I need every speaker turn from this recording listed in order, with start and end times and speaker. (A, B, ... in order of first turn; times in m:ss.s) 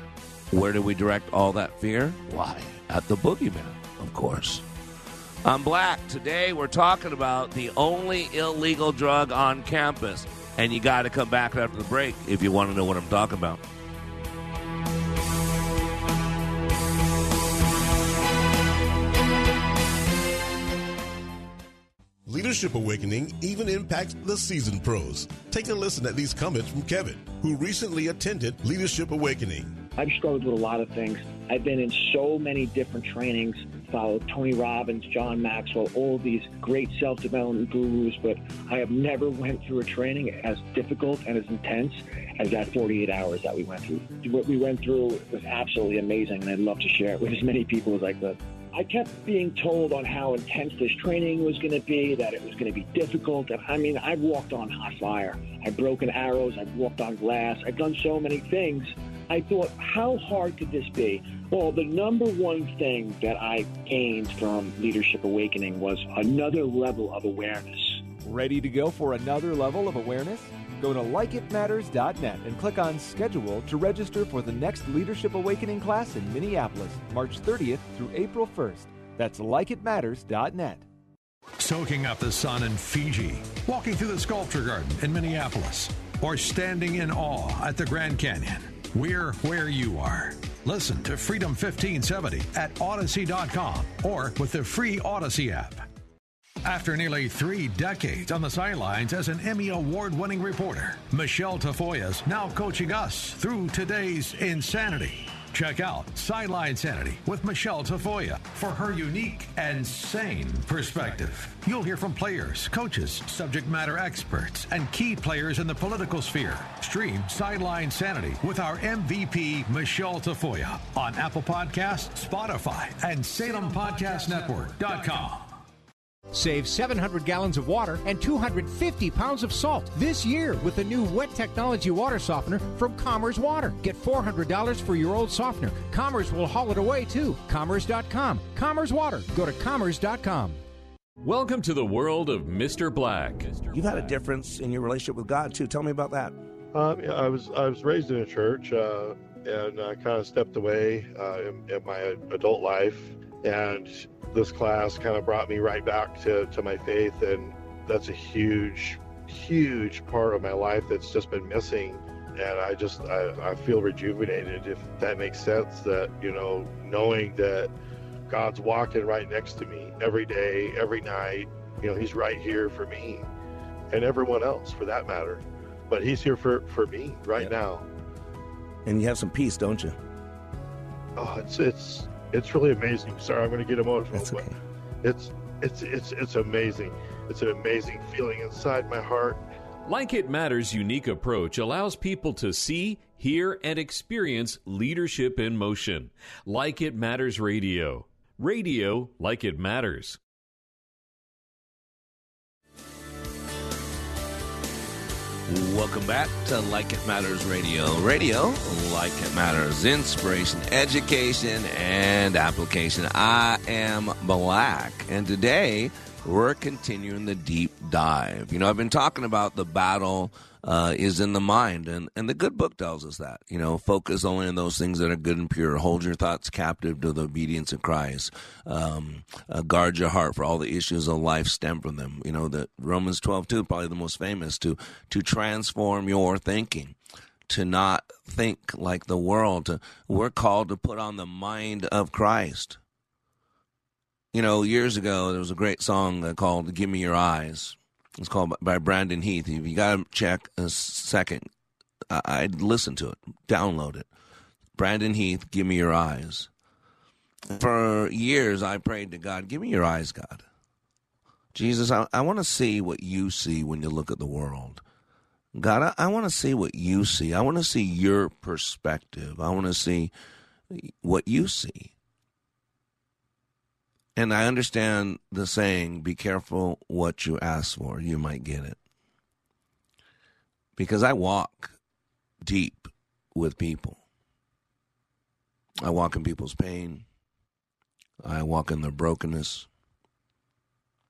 0:00.5-0:04.6 A
0:05.4-0:13.6 A
0:22.3-0:29.8 B
0:30.0-1:08.1 C
1:08.2-1:20.9 D
1:21.6-1:35.8 E
1:36.6-2:05.6 E
2:06.3-2:20.6 F
2:21.2-2:24.1 G
2:23.7-2:26.3 A
2:26.7-2:47.7 H
2:48.3-2:53.3 H
2:53.9-2:57.8 H
2:58.9-3:00.0 A
3:01.2-3:04.5 H
3:04.1-3:04.6 A
3:05.0-3:09.4 H
3:09.9-3:20.2 G
3:25.5-3:57.0 A
3:57.5-4:02.8 A
4:04.3-4:11.5 A
4:12.1-4:14.1 A
4:14.8-4:16.5 A
4:17.5-4:20.4 A
4:21.5-4:24.8 A
4:25.6-4:30.1 A
4:30.7-4:31.9 A
4:34.2-4:38.8 A
4:40.8-4:41.7 A
4:42.4-4:44.0 A
4:45.8-4:47.0 A
4:48.2-4:49.7 A